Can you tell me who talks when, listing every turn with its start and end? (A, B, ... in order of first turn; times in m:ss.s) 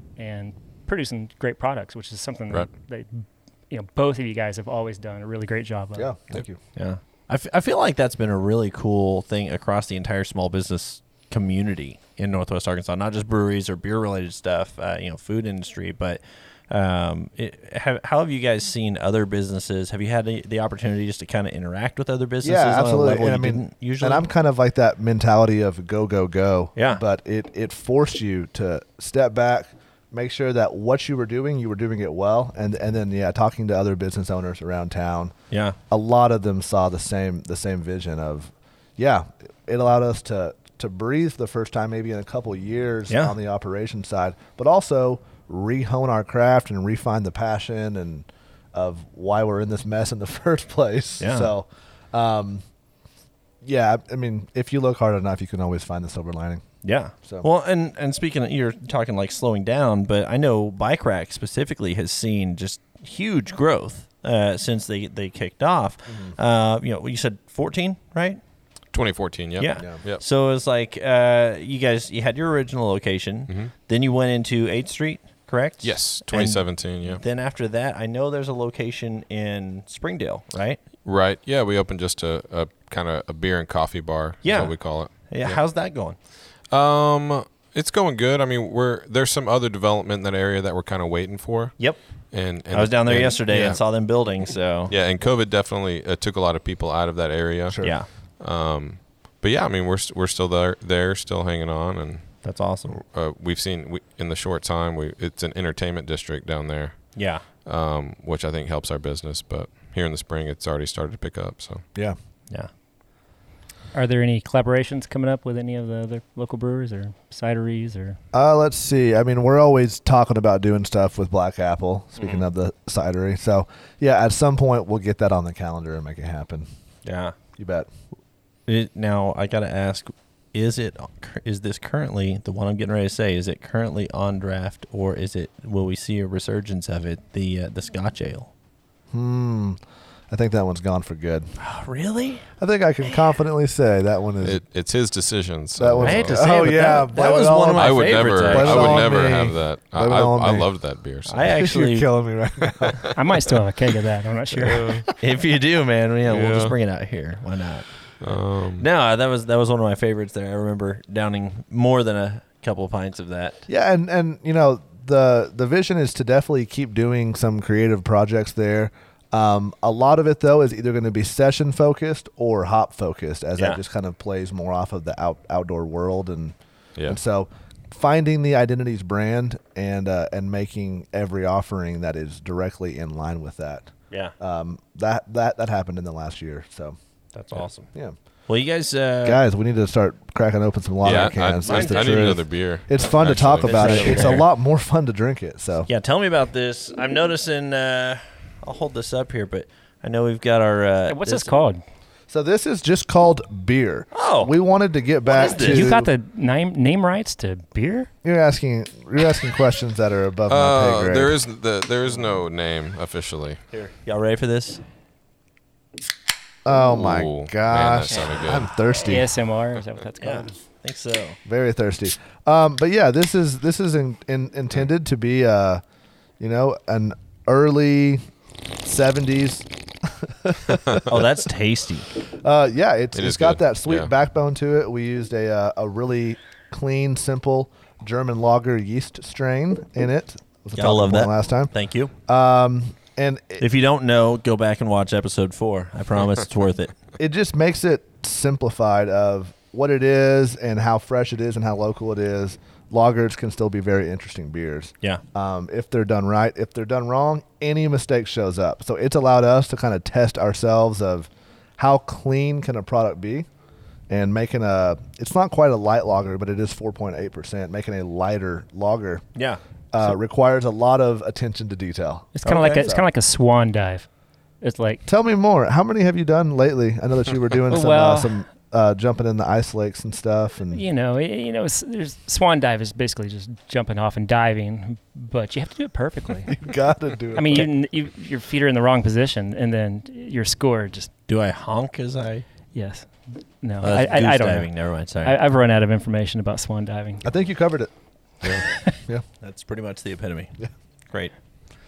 0:00.2-0:06.1 A
0:06.0-0:06.6 B
0:06.8-0:24.3 C
0:22.4-0:35.3 B
0:26.8-0:27.0 C
0:35.5-0:35.8 C
0:35.9-0:52.6 B
0:43.1-0:43.4 C
0:51.2-0:51.5 C
0:53.6-0:56.6 B
0:56.8-1:08.4 C
1:06.1-1:06.4 B
1:08.9-1:10.2 D
1:09.6-1:20.8 C
1:15.8-1:17.2 D
1:21.0-1:25.6 D
1:24.4-1:26.2 C
1:26.7-1:33.8 D
1:32.7-1:34.9 C
1:34.9-1:51.8 D
1:37.7-1:38.0 B
1:37.8-1:38.1 C
1:42.4-1:43.0 C
1:47.2-1:47.4 C
1:53.9-1:58.2 A
1:58.3-2:06.7 B
2:02.2-2:02.4 C
2:07.0-2:07.4 C
2:07.6-2:07.9 B
2:08.7-2:18.5 C
2:19.1-2:21.5 B
2:21.6-2:22.5 C
2:22.6-2:24.6 B
2:24.4-2:26.5 D
2:25.8-2:30.7 B
2:26.0-2:29.1 C
2:27.8-2:31.5 D
2:31.3-2:32.1 C
2:31.4-2:33.1 B
2:32.9-2:33.1 D
2:33.1-2:35.1 A
2:34.5-2:35.1 D
2:35.2-2:37.9 C
2:36.3-2:36.8 D
2:38.2-2:38.9 D
2:38.8-2:43.6 C
2:43.7-3:07.0 B
3:07.3-3:07.9 C
3:08.5-3:09.4 C
3:09.2-3:15.9 B
3:11.0-3:14.3 D
3:11.6-3:12.3 C
3:13.6-3:14.4 C
3:14.1-3:14.4 A
3:15.9-3:21.5 C
3:21.1-3:21.8 A
3:22.3-3:26.1 B
3:24.1-3:24.5 C
3:25.3-3:26.0 C
3:25.5-3:28.1 A
3:28.2-3:31.4 B
3:30.5-3:33.6 D
3:33.7-3:34.8 C
3:36.6-3:39.3 B
3:36.8-3:38.7 D
3:39.0-3:40.6 A
3:40.2-3:41.4 C
3:41.4-3:45.8 B
3:46.4-3:48.2 B
3:48.8-3:51.2 B
3:51.1-3:52.1 C
3:52.4-4:01.7 B
3:53.2-3:54.1 D
4:00.8-4:02.1 C
4:02.3-4:03.6 B
4:03.6-4:07.0 C
4:07.2-4:23.5 B
4:24.1-4:29.2 B
4:29.4-4:29.6 C
4:29.9-4:33.1 B
4:32.4-4:34.1 A
4:32.4-4:32.9 C
4:34.6-4:35.0 A
4:35.1-4:40.8 B
4:37.7-4:38.4 A
4:40.7-4:46.6 A
4:46.5-4:47.7 B
4:47.3-4:51.1 A
4:51.3-4:52.4 C
4:52.7-4:57.2 A
4:53.8-4:55.4 C
4:57.2-4:57.9 B
4:59.4-5:00.6 C